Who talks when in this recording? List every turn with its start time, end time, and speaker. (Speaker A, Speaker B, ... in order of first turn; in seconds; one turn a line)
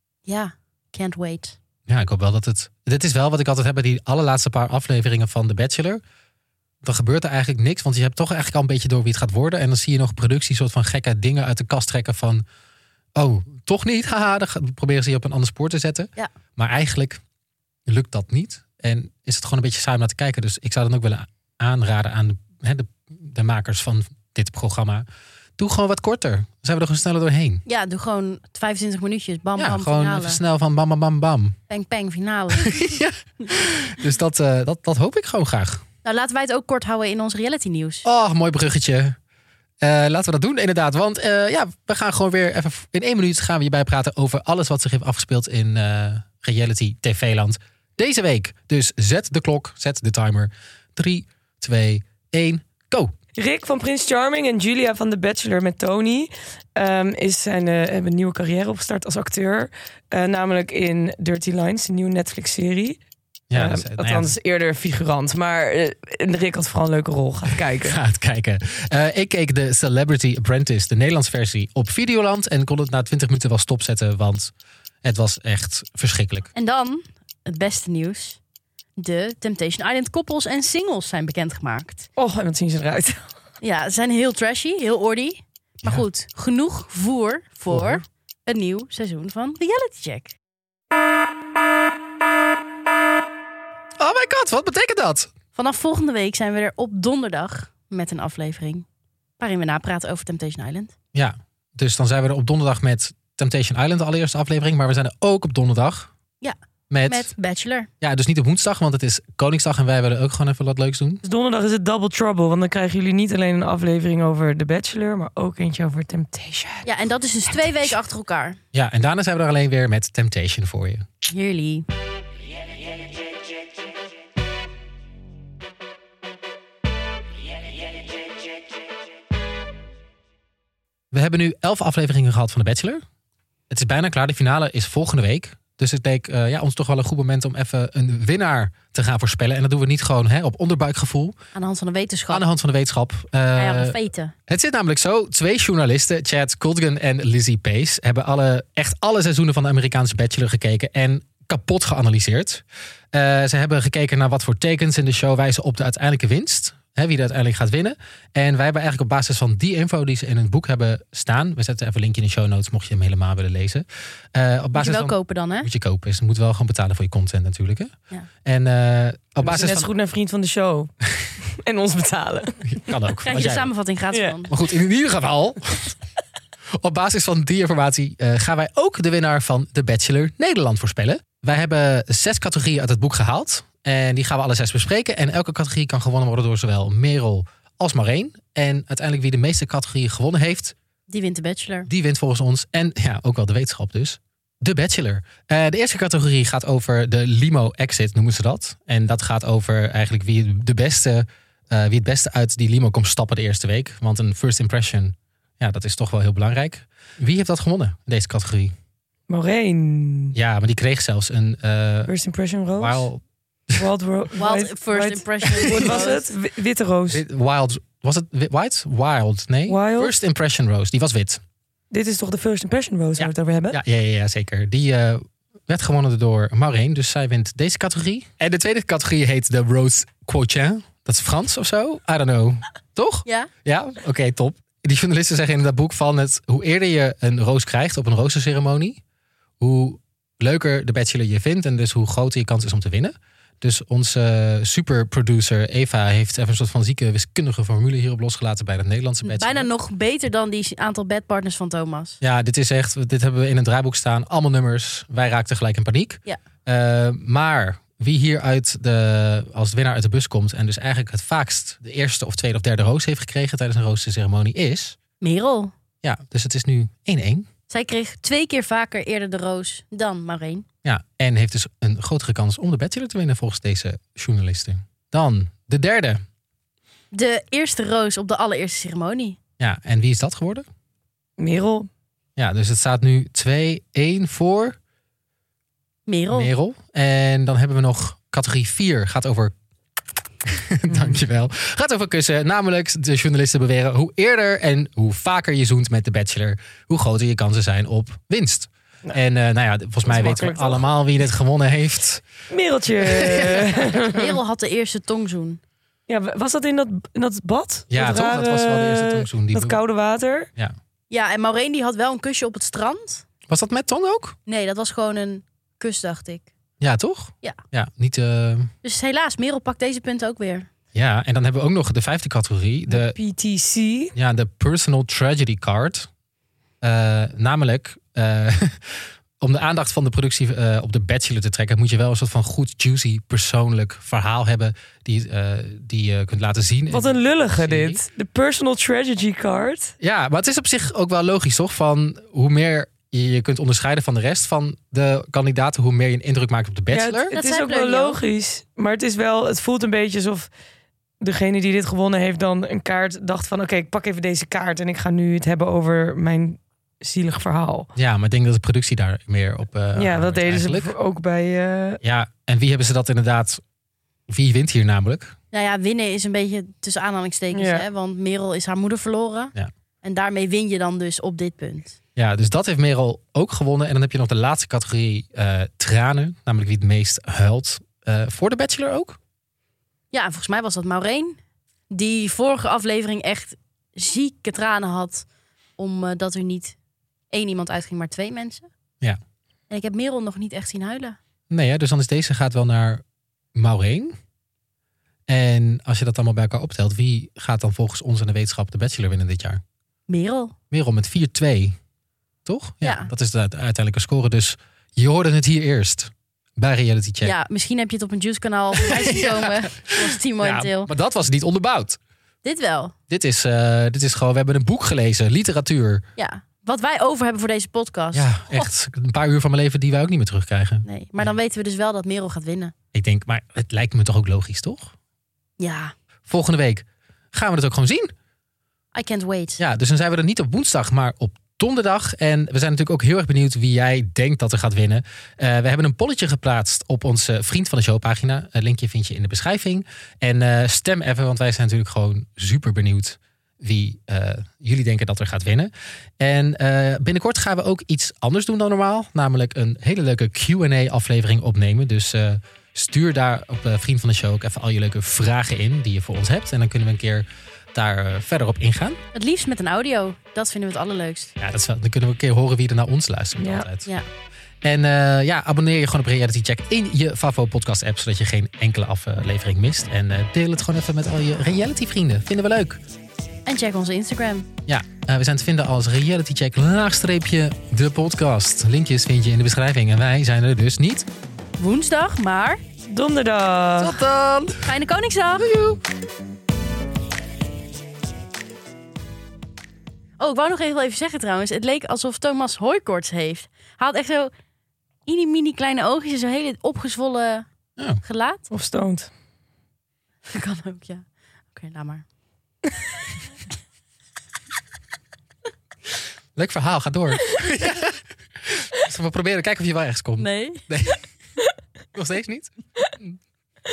Speaker A: 0.3-1.6
Speaker B: 1.9-6.0
Speaker B: 6.8-12.4
Speaker B: 13.2-17.2
Speaker B: 17.9-25.1
Speaker B: 25.6-27.6
Speaker A: 27.7-30.4
Speaker B: 29.6-31.6
Speaker A: 31.7-32.7
Speaker B: 32.5-35.8
Speaker A: 36.0-38.0
Speaker B: 38.0-39.2
Speaker B: 39.8-53.1
Speaker C: 53.4-63.0
Speaker B: 63.5-64.4
Speaker C: 63.5-68.0
Speaker B: 67.8-74.5
Speaker B: 75.0-76.5
Speaker A: 76.5-78.4
Speaker A: 79.0-82.1
Speaker C: 82.2-83.3
Speaker A: 83.6-90.4
Speaker B: 87.7-88.0
Speaker B: 94.0-95.3
Speaker A: 95.5-98.9
Speaker A: 99.4-100.9
Speaker B: 101.1-106.1
Speaker A: 106.4-107.9
Speaker B: 106.9-107.3
Speaker B: 108.0-111.2
Speaker C: 111.2-116.9
Speaker A: 116.8-118.6
Speaker B: 118.7-121.0
Speaker A: 121.3-121.9
Speaker B: 131.1-133.0
Speaker B: 133.7-141.4
Speaker A: 141.5-142.4
Speaker B: 142.3-167.9
Speaker A: 143.6-144.3
Speaker A: 164.8-165.7
Speaker B: 168.4-169.9
Speaker C: 169.4-172.8
Speaker B: 172.7-173.7
Speaker A: 173.2-174.5
Speaker C: 174.1-174.4
Speaker B: 174.5-176.0
Speaker B: 176.8-190.8
Speaker A: 191.1-191.9
Speaker B: 191.9-208.8
Speaker C: 209.3-210.3
Speaker B: 210.3-212.1
Speaker C: 212.1-213.1
Speaker B: 212.8-213.9
Speaker C: 213.8-217.2
Speaker A: 214.4-216.3
Speaker B: 215.8-216.1
Speaker B: 217.1-221.4
Speaker C: 219.7-220.2
Speaker C: 221.9-223.8
Speaker B: 223.2-239.0
Speaker B: 239.6-249.7
Speaker A: 249.2-252.2
Speaker B: 252.2-265.0
Speaker A: 265.2-265.7
Speaker B: 266.0-267.5
Speaker A: 267.7-270.7
Speaker B: 270.8-276.2
Speaker A: 277.1-279.4
Speaker B: 279.6-280.7
Speaker C: 281.4-281.9
Speaker B: 282.4-284.8
Speaker A: 286.1-286.5
Speaker B: 286.3-289.5
Speaker B: 290.4-302.2
Speaker C: 290.9-291.2
Speaker C: 300.1-300.9
Speaker C: 302.5-304.4
Speaker B: 303.0-303.8
Speaker A: 304.0-305.6
Speaker C: 306.1-310.5
Speaker B: 307.9-309.8
Speaker A: 311.1-313.2
Speaker B: 313.5-314.4
Speaker A: 314.5-316.5
Speaker B: 316.8-318.7
Speaker A: 318.8-320.7
Speaker B: 320.9-323.2
Speaker C: 322.9-324.1
Speaker B: 324.1-326.1
Speaker B: 326.8-338.0
Speaker C: 336.9-339.9
Speaker B: 340.0-347.3
Speaker C: 346.9-350.5
Speaker A: 347.3-348.2
Speaker C: 351.2-357.9
Speaker B: 357.9-360.9
Speaker C: 360.0-362.0
Speaker B: 362.0-363.6
Speaker B: 364.3-365.4
Speaker A: 365.5-372.0
Speaker C: 367.5-367.9
Speaker B: 372.2-379.2
Speaker A: 380.1-381.4
Speaker A: 381.9-385.3
Speaker A: 385.8-386.8
Speaker A: 387.3-388.7
Speaker A: 389.7-391.2
Speaker B: 391.5-393.0
Speaker B: 393.5-394.2
Speaker B: 395.3-399.6
Speaker A: 400.1-400.6
Speaker B: 400.7-401.8
Speaker B: 402.4-407.4
Speaker A: 402.8-403.1
Speaker A: 407.2-410.9
Speaker B: 408.8-412.0
Speaker A: 412.4-412.9
Speaker B: 413.1-416.1
Speaker A: 416.2-418.7
Speaker B: 418.1-420.9
Speaker A: 420.9-422.7
Speaker B: 422.9-424.9
Speaker A: 425.6-425.9
Speaker B: 426.3-428.1
Speaker A: 428.9-429.6
Speaker B: 429.6-459.0
Speaker A: 459.1-461.3
Speaker B: 461.4-463.9
Speaker C: 463.4-463.7
Speaker B: 464.6-472.8
Speaker A: 473.5-474.5
Speaker B: 474.7-481.1
Speaker A: 481.6-482.6
Speaker C: 482.9-484.0
Speaker B: 483.8-484.7
Speaker A: 484.6-485.5
Speaker B: 485.4-485.8
Speaker A: 490.2-494.3
Speaker A: 495.1-497.5
Speaker B: 497.8-498.0
Speaker A: 498.0-498.5
Speaker C: 498.5-499.1
Speaker A: 500.3-502.0
Speaker B: 506.4-511.0
Speaker A: 510.2-510.7
Speaker B: 511.9-513.2